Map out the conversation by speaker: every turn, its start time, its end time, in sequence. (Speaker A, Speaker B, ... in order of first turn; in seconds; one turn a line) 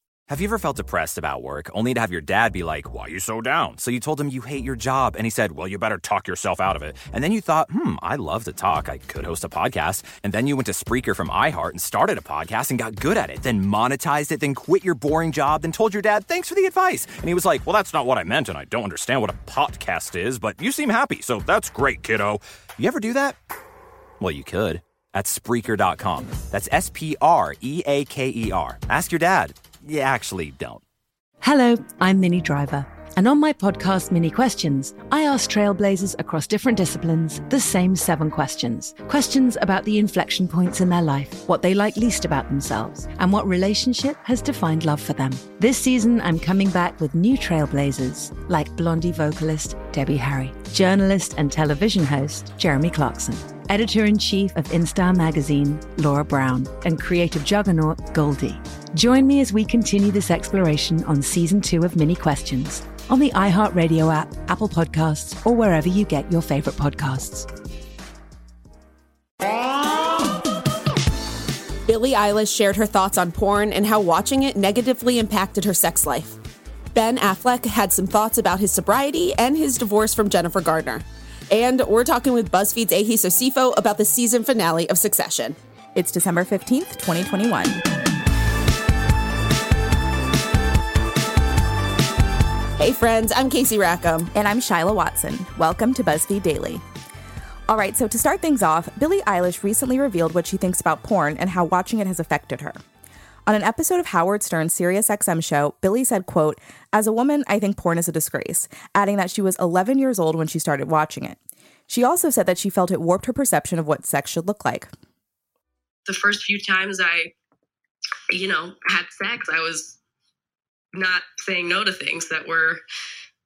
Speaker A: 0.3-23.4
Speaker A: 24.2-30.8
Speaker B: 31.4-67.5
Speaker C: 71.8-76.3
Speaker C: 76.9-85.5
Speaker D: 85.9-87.8
Speaker C: 92.8-94.3
Speaker D: 94.3-96.8
Speaker D: 97.7-102.8
Speaker D: 103.5-114.9
Speaker E: 116.0-117.3
Speaker E: 118.3-120.0
Speaker E: 120.9-122.8